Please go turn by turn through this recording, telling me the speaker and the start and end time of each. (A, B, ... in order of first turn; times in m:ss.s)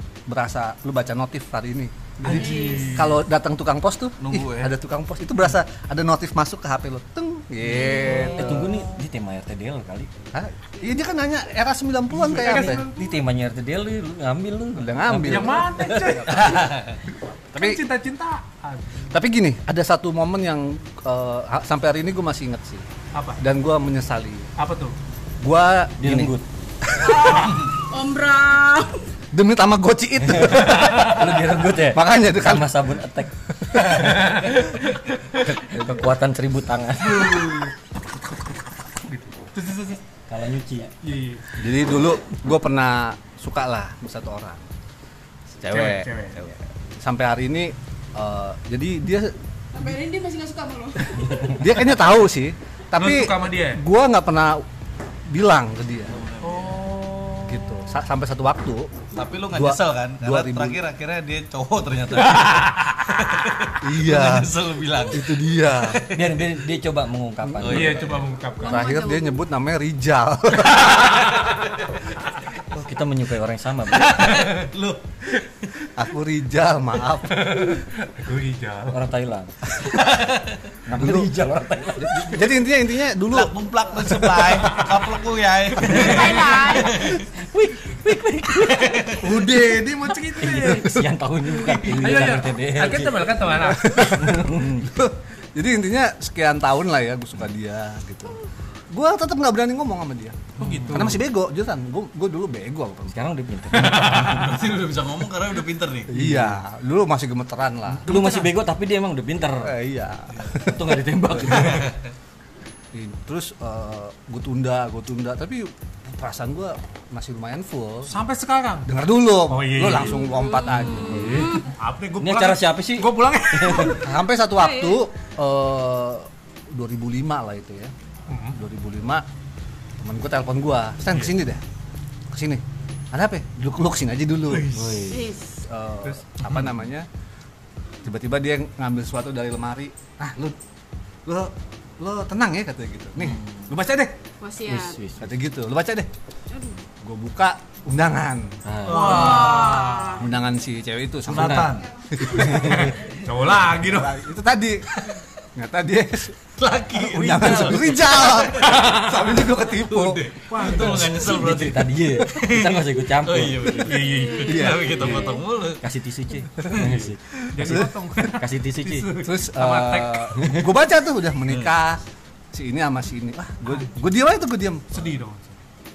0:00.3-0:08.8 A
0:02.2-0:02.7 B
0:02.2-0:03.1 C
0:02.3-0:03.0 D
0:04.2-0:04.7 B
0:08.2-0:10.1 E
0:10.3-0:12.9 A
0:12.1-0:13.2 C
0:12.7-0:16.6 E
0:14.8-0:16.6 A
0:15.1-0:16.7 C
0:16.5-0:17.0 B
0:17.5-0:19.1 C
0:17.5-0:17.8 A
0:19.1-0:22.9 A
0:23.1-0:23.4 C
0:23.4-0:24.5 A
0:24.6-0:25.0 C
0:25.4-0:27.5 A
0:26.0-0:26.4 E
0:27.0-0:29.1 D
0:29.3-0:31.2 A
0:30.2-0:34.2 E
0:30.8-0:31.4 C
0:31.8-0:32.8 A
0:33.6-0:34.2 A
0:33.9-0:34.8 C
0:35.5-0:37.5 E
0:37.1-0:37.7 C
0:39.1-0:40.0 C
0:40.3-0:40.9 E
0:41.0-0:41.6 C
0:41.5-0:44.6 A
0:45.6-0:49.4 A
0:45.7-0:46.4 C
0:49.7-0:51.5 D
0:51.1-0:54.6 A
0:53.0-0:53.8 C
0:55.3-0:56.1 A
0:56.4-0:57.9 C
0:57.5-0:59.0 A
0:59.1-1:06.4 B
0:59.5-1:00.8 A
1:02.2-1:03.0 C
1:03.8-1:04.5 A
1:05.1-1:06.0 A
1:06.1-1:08.2 E
1:07.4-1:07.8 A
1:07.6-1:08.3 B
1:07.7-1:08.8 C
1:08.6-1:09.4 D
1:08.6-1:11.4 A
1:10.9-1:11.7 C
1:12.7-1:14.4 E
1:14.2-1:15.2 B
1:14.2-1:14.6 C
1:15.9-1:17.5 A
1:17.3-1:19.0 C
1:18.9-1:19.8 E
1:19.9-1:20.6 B
1:20.9-1:23.5 A
1:20.9-1:22.4 E
1:23.3-1:27.3 B
1:24.6-1:25.0 C
1:25.8-1:27.2 D
1:27.5-1:28.9 E
1:27.9-1:28.9 D
1:28.6-1:29.4 B
1:29.2-1:31.1 C
1:30.4-1:34.7 E
1:31.7-1:34.1 C
1:33.6-1:43.2 A
1:40.6-1:41.2 C
1:40.6-1:41.2 E
1:43.1-1:44.5 E
1:43.8-1:44.6 C
1:43.8-1:46.5 B
1:46.1-1:48.0 A
1:48.0-1:49.7 E
1:48.0-1:48.5 C
1:49.6-1:51.8 A
1:50.4-1:50.6 B
1:50.6-1:51.9 E
1:51.4-1:52.0 B
1:52.9-1:58.1 A
1:58.1-1:58.9 C
1:58.8-2:01.5 A
1:59.5-2:00.3 C
2:00.0-2:01.7 D
2:01.0-2:01.6 E
2:01.1-2:04.1 C
2:02.2-2:04.0 E
2:04.0-2:07.9 A
2:04.6-2:05.0 D
2:08.3-2:08.6 C
2:08.5-2:09.3 A
2:10.0-2:11.6 A
2:12.3-2:14.8 A
2:14.5-2:15.1 C
2:14.7-2:15.3 E
2:15.1-2:15.6 D
2:15.6-2:17.1 A
2:18.0-2:20.6 A
2:21.3-2:24.2 A
2:23.2-2:23.7 E
2:24.4-2:25.0 D
2:24.7-2:25.3 E
2:25.2-2:26.1 A
2:26.5-2:26.8 D
2:27.0-2:28.6 A
2:28.6-2:29.5 E
2:28.8-2:30.2 B
2:29.0-2:30.2 D
2:30.1-2:32.9 A
2:31.3-2:31.8 B
2:31.3-2:31.7 E
2:32.4-2:32.8 B
2:32.7-2:34.1 C
2:33.9-2:36.4 A
2:36.6-2:45.8 B
2:37.0-2:40.2 A
2:38.8-2:39.0 C
2:40.9-2:44.0 E
2:43.9-2:45.4 C
2:44.1-2:45.4 D
2:44.4-2:44.9 A
2:45.8-2:49.2 E
2:46.7-2:50.3 C
2:47.5-2:47.9 A
2:49.2-2:55.1 A
2:54.9-2:55.6 C